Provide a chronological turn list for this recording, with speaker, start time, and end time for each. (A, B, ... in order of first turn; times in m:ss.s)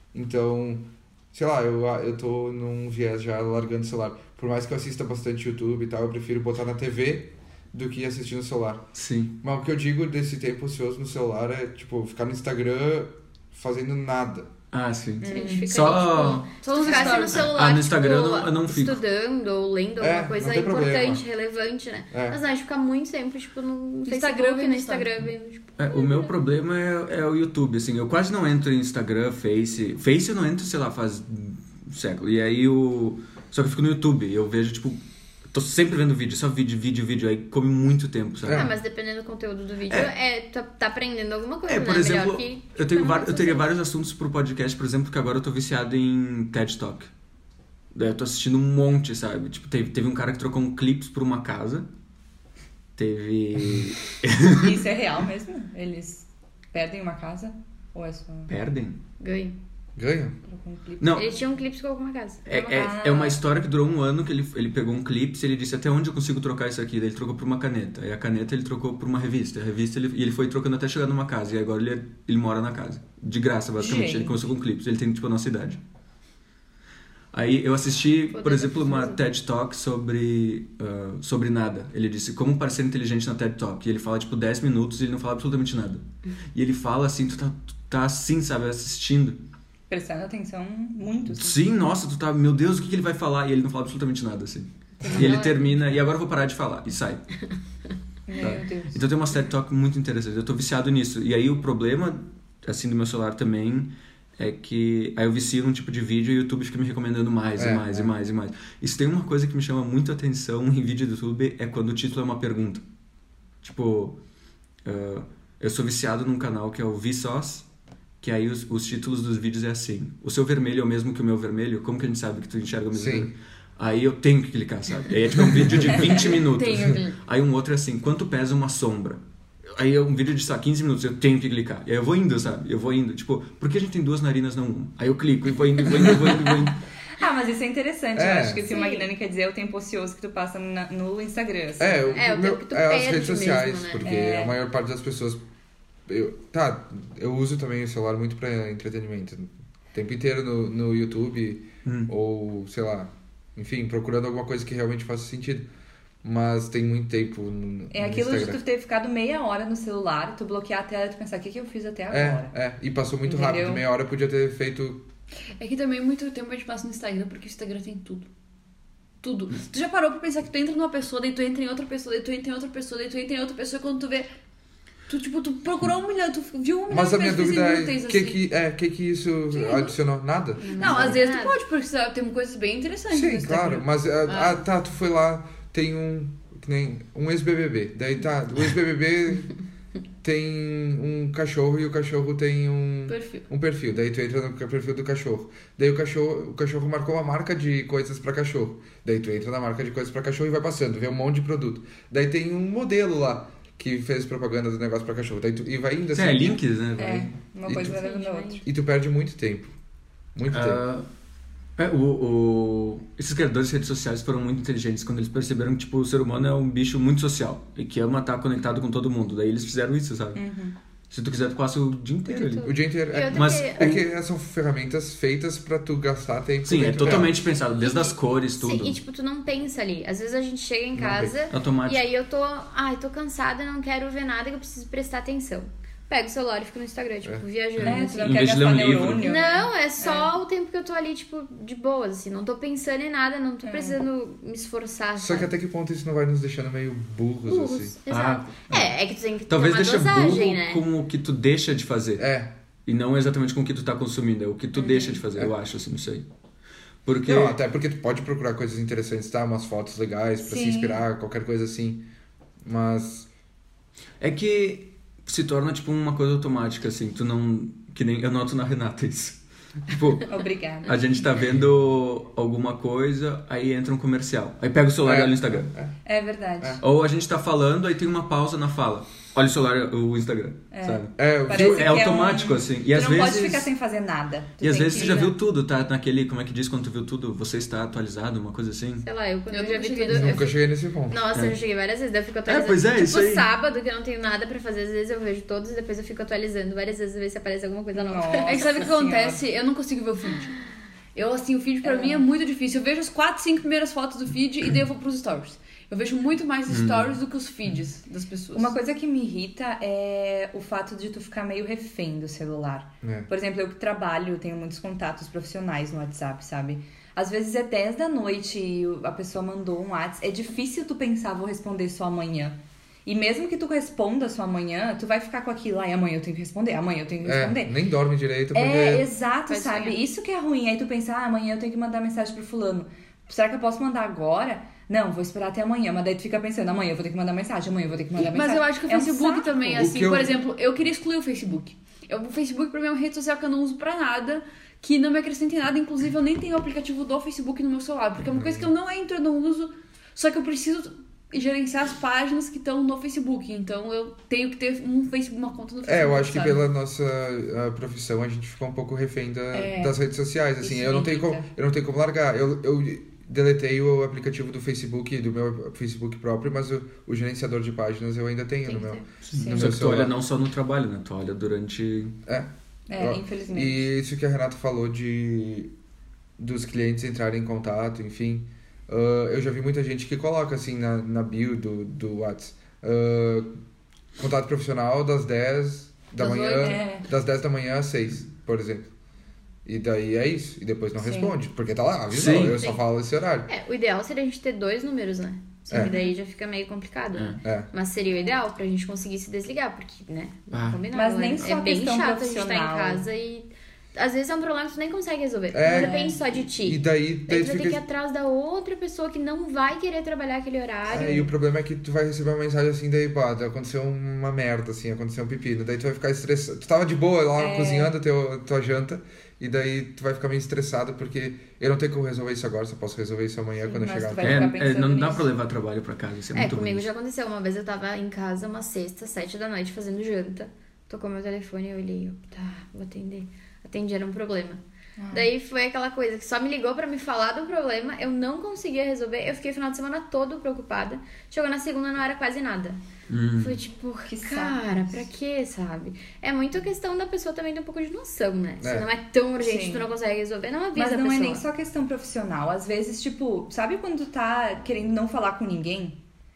0:00.1-0:08.9 A
0:08.9-0:09.4 B
0:09.4-0:14.5 A
0:14.7-0:19.0 B
0:15.2-0:26.3 C
0:15.3-0:15.7 D
0:16.6-0:17.5 E
0:20.0-0:21.2 A
0:22.1-0:22.4 A
0:24.1-0:25.1 E
0:25.8-0:38.7 B
0:38.4-0:38.7 A
0:38.5-0:43.7 C
0:41.6-0:47.1 B
0:47.9-0:51.9 B
0:53.0-0:54.8 B
0:54.5-0:58.5 D
0:58.5-0:59.0 B
0:59.2-0:59.6 C
1:00.0-1:00.4 A
1:00.5-1:01.3 D
1:01.0-1:01.3 B
1:01.1-1:03.0 C
1:02.4-1:15.8 B
1:02.8-1:03.4 D
1:13.8-1:14.4 D
1:17.3-1:29.4 B
1:18.3-1:19.2 C
1:29.9-1:31.6 D
1:31.3-1:37.2 B
1:35.0-1:35.6 C
1:38.3-1:39.0 D
1:38.4-1:52.8 B
1:47.6-1:48.1 A
1:53.6-1:54.2 B
1:54.8-1:57.6 B
1:58.2-2:16.8 B
2:02.9-2:03.3 A
2:06.7-2:07.1 E
2:17.2-2:22.1 D
2:18.1-2:18.7 A
2:18.7-2:19.1 C
2:21.8-2:25.4 A
2:22.1-2:24.1 C
2:24.0-2:24.6 D
2:26.1-2:35.7 A
2:31.8-2:32.1 B
2:36.2-2:38.6 A
2:37.9-2:42.5 D
2:42.1-2:45.0 A
2:43.2-2:43.8 D
2:45.6-2:48.3 E
2:49.2-2:54.3 E
2:55.1-2:58.4 E
2:56.9-3:01.2 A
2:59.5-2:59.9 E
3:00.6-3:01.6 C
3:00.8-3:04.6 E
3:03.1-3:09.5 A
3:10.2-3:26.6 A
3:13.1-3:13.4 E
3:26.1-3:27.8 B
3:27.0-3:28.6 D
3:27.8-3:28.6 C
3:28.6-3:29.7 A
3:30.4-3:30.8 A
3:30.5-3:31.1 B
3:31.8-3:40.4 B
3:40.4-3:40.8 D
3:41.1-3:42.7 B
3:42.3-3:44.0 C
3:42.6-3:47.3 A
3:43.3-3:44.0 B
3:46.6-3:49.0 B
3:47.8-4:05.5 C
3:51.0-3:51.4 A
3:51.5-3:52.0 B
3:57.8-3:59.3 B
3:57.8-4:00.3 D
4:03.6-4:04.0 D
4:05.2-4:07.9 A
4:07.4-4:10.8 C
4:08.1-4:08.9 B
4:09.5-4:12.2 B
4:12.2-4:12.5 A
4:12.9-4:16.2 B
4:14.8-4:15.2 C
4:17.0-4:17.6 B
4:17.2-4:22.0 A
4:20.4-4:21.0 D
4:22.6-4:23.3 A
4:24.2-4:30.3 B
4:30.3-4:31.0 D
4:30.8-4:35.7 B
4:35.0-4:35.9 A
4:36.0-4:36.8 D
4:36.8-4:43.7 B
4:40.7-4:45.4 D
4:41.2-4:42.1 A
4:44.6-4:49.1 B
4:49.0-4:58.9 C
4:49.5-4:50.5 E
4:50.1-4:51.2 A
4:52.4-4:53.5 B
4:58.0-4:59.4 D
4:58.5-5:00.6 E
5:01.1-5:08.7 E
5:01.8-5:02.3 D
5:06.7-5:07.2 B
5:08.5-5:27.8 D
5:13.0-5:13.3 A
5:27.2-5:29.1 A
5:28.5-5:39.9 D
5:29.5-5:30.0 C
5:38.2-5:56.6 E
5:39.7-5:40.4 A
5:48.3-5:48.7 A
5:55.8-6:10.1 A
5:59.5-6:00.0 D
6:00.6-6:01.5 D
6:08.6-6:09.0 C
6:09.3-6:12.2 B
6:09.3-6:09.8 D
6:12.3-6:15.7 A
6:12.9-6:13.8 D
6:16.4-6:23.5 A
6:24.2-6:28.9 A
6:26.2-6:26.8 C
6:26.6-6:27.0 D
6:29.6-6:33.5 A
6:31.0-6:31.4 D
6:32.1-6:32.7 B
6:33.5-6:51.2 C
6:35.8-6:36.1 D
6:37.1-6:37.4 B
6:37.4-6:37.7 A
6:40.5-6:40.9 B
6:40.9-6:43.0 D
6:45.5-6:47.8 A
6:45.7-6:46.2 D
6:50.9-7:04.6 A
6:50.9-6:51.3 D
6:57.4-6:57.9 D
7:03.6-7:05.3 D
7:04.2-7:06.9 B
7:06.3-7:14.6 C
7:15.0-7:15.3 D
7:15.1-7:22.8 C
7:23.1-7:23.6 B
7:23.4-7:31.4 C
7:24.1-7:25.1 D
7:28.6-7:28.9 A
7:29.4-7:29.9 D
7:30.7-7:36.0 D